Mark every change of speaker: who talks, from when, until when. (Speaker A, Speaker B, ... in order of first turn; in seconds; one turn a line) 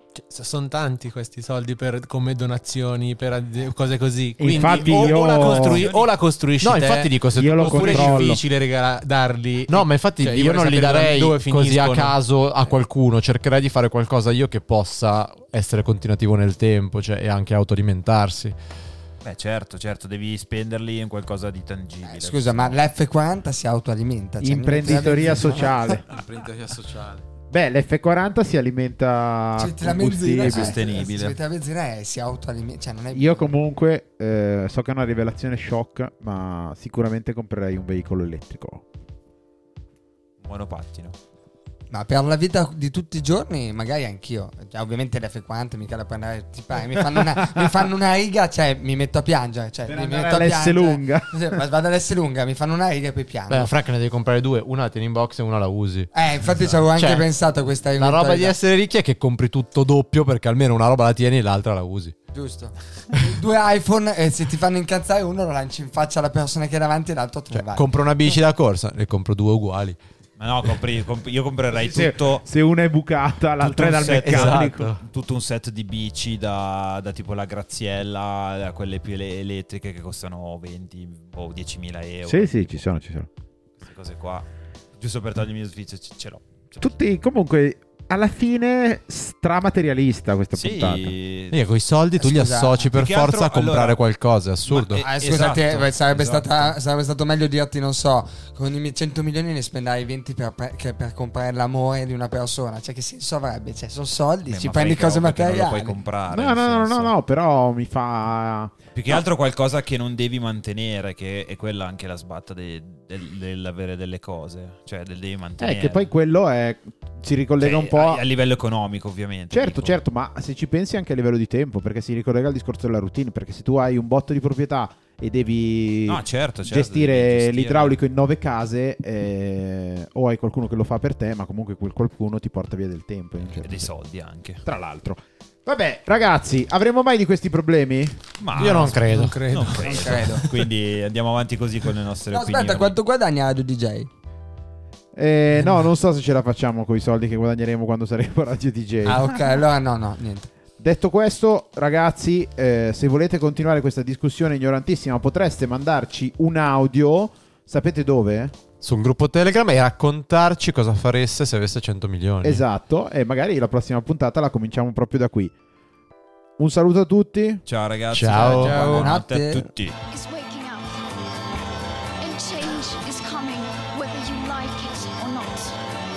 Speaker A: 0.1-12.2
Speaker B: 4.4-5.9
Speaker C: 4.6-6.1
Speaker D: 6.6-8.4
Speaker B: 7.3-8.4
Speaker D: 9.7-18.6
Speaker C: 19.2-22.8
Speaker E: 22.1-26.0
Speaker B: 24.4-26.0
Speaker D: 26.1-27.2
Speaker B: 27.5-30.8
Speaker E: 29.6-33.5
Speaker C: 30.4-31.4
Speaker B: 33.1-38.9
Speaker C: 40.4-41.2
Speaker E: 41.9-53.7
Speaker B: 47.1-47.6
Speaker B: 49.9-51.6
Speaker D: 53.5-56.1
Speaker E: 56.1-58.6
Speaker D: 56.6-57.3
Speaker D: 58.0-62.1
Speaker E: 62.3-67.9
Speaker D: 67.5-70.0
Speaker C: 70.4-72.5
Speaker B: 71.7-75.0
Speaker C: 73.6-82.8
Speaker A: 73.8-74.9
Speaker B: 82.3-83.3
Speaker C: 83.8-84.5
Speaker C: 85.0-86.9
Speaker B: 86.8-91.2
Speaker C: 90.5-91.6
Speaker D: 91.5-95.0
Speaker E: 92.2-92.9
Speaker C: 92.9-94.0
Speaker C: 94.7-96.7
Speaker E: 95.0-106.0
Speaker C: 104.5-107.2
Speaker B: 106.3-109.2
Speaker C: 109.0-116.1
Speaker B: 115.6-118.2
Speaker C: 117.6-120.0
Speaker B: 119.5-133.9
Speaker C: 126.1-128.0
Speaker C: 133.5-134.6
Speaker B: 134.7-138.2
Speaker C: 138.4-143.0
Speaker D: 138.5-139.5
Speaker A: 138.6-140.3
Speaker E: 139.8-140.5
Speaker E: 142.3-144.1
Speaker B: 145.2-149.3
Speaker E: 149.1-150.5
Speaker B: 150.8-158.6
Speaker D: 158.8-162.6
Speaker B: 162.4-165.5
Speaker B: 166.6-167.6
Speaker C: 167.7-170.0
Speaker D: 168.1-169.0
Speaker A: 168.4-169.1
Speaker E: 168.5-169.7
Speaker F: 170.1-170.8
Speaker F: 172.2-175.7